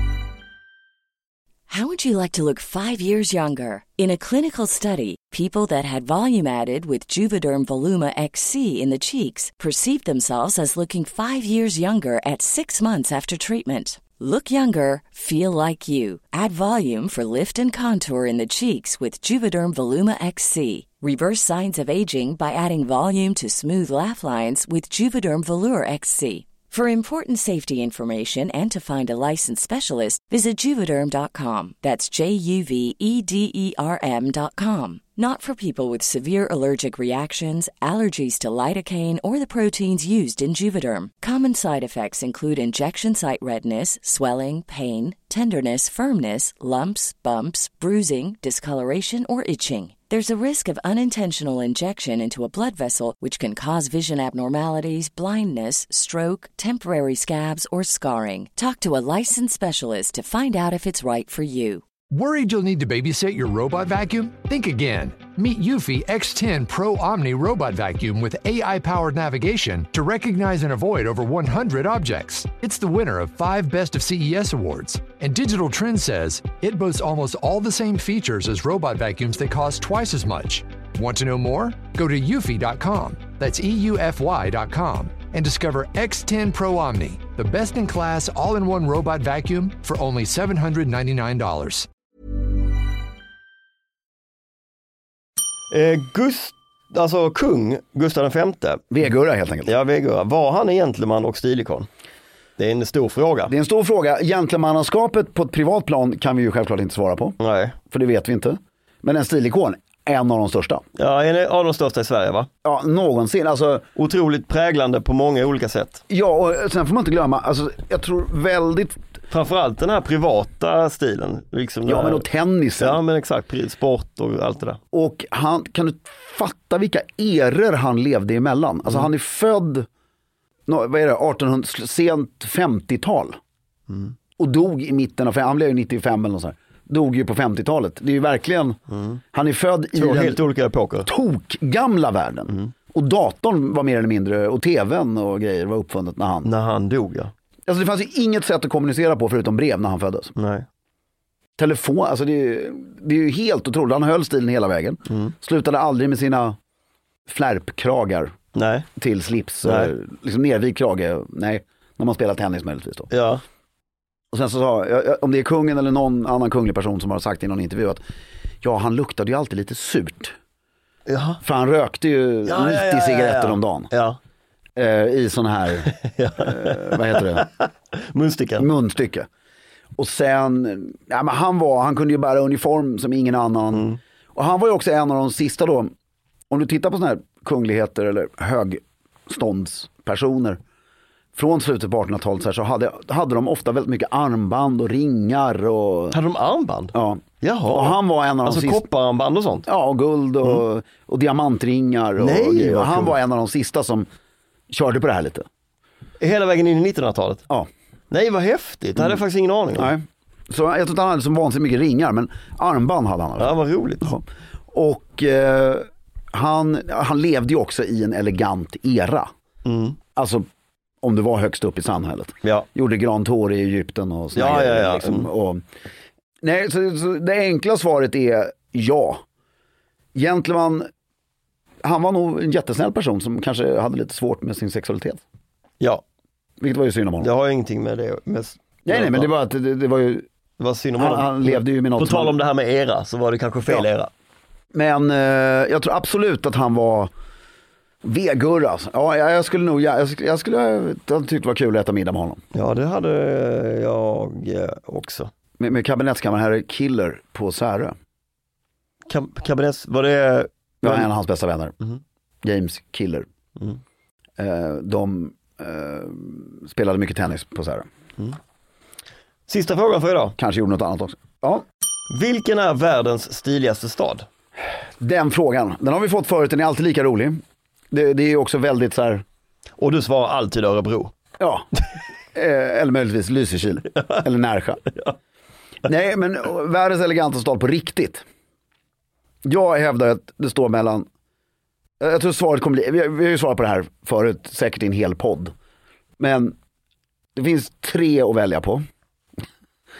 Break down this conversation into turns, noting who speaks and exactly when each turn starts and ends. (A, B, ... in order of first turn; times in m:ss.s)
0:01.7-1:01.8 A
1:02.1-1:31.9 B
1:35.7-1:38.8 C
1:38.9-1:39.7 D
1:39.6-1:41.9 C
1:42.6-1:43.5 C
1:43.5-1:47.4 D
1:47.4-1:47.8 C
1:47.9-1:50.8 D
1:51.0-1:52.5 C
1:52.6-1:53.8 D
1:54.0-1:56.0 C
1:56.1-1:59.0 D
1:59.3-2:02.2 C
2:01.8-2:03.0 D
2:02.8-2:04.8 C
2:04.9-2:09.9 D
2:10.7-2:13.4 D
2:13.9-2:14.1 C
2:14.4-2:18.8 D
2:18.9-2:19.2 C
2:19.3-2:20.4 D
2:19.9-2:21.1 C
2:21.0-2:26.5 D
2:26.4-2:27.3 C
2:27.7-2:30.3 D
2:30.4-2:30.6 C
2:31.6-2:36.6 D
2:37.3-2:38.3 D
2:38.5-2:38.9 C
2:39.0-2:43.1 D
2:39.6-2:39.9 C
2:43.1-2:43.4 C
2:44.3-2:48.0 D
2:48.6-2:50.3 D
2:51.1-2:51.4 C
2:51.4-2:53.9 D
2:52.4-2:54.2 C
2:54.8-2:57.5 D
2:55.8-2:58.7 C
2:58.6-2:59.3 D
3:00.0-3:05.9 D
3:03.7-3:04.0 C
3:06.5-3:10.6 D
3:11.3-3:16.2 D
3:16.1-3:19.6 C
3:16.9-3:18.8 D
3:19.6-3:24.1 D
3:22.2-3:23.2 C
3:24.7-3:25.4 D
3:26.2-3:27.4 C
3:28.1-3:29.9 C
3:29.7-3:39.3 D
3:33.4-3:34.1 C
3:39.6-3:40.0 C
3:40.1-3:40.4 D
3:41.0-3:45.6 D
3:44.3-3:45.3 C
3:46.4-3:49.2 D
3:50.1-3:50.9 D
3:51.8-3:55.2 D
3:56.6-3:57.3 D
3:57.2-3:59.3 C
3:58.8-4:00.3 D
4:00.6-4:04.1 C
4:01.0-4:02.4 D
4:04.7-4:07.1 D
4:08.0-4:12.4 D
4:12.5-4:15.3 C
4:15.6-4:17.9 D
4:19.1-4:21.1 C
4:20.8-4:21.7 D
4:22.4-4:23.2 D
4:24.4-4:27.8 D
4:29.5-4:30.4 C
4:30.4-4:31.6 D
4:32.1-4:34.2 C
4:35.0-4:37.4 D
4:37.9-4:39.2 D
4:39.8-4:41.1 C
4:41.4-4:41.7 D
4:42.3-4:44.9 D
4:45.8-4:48.2 D
4:49.4-4:51.0 D
4:52.0-4:55.5 D
4:56.2-4:56.5 D
4:57.3-4:58.8 D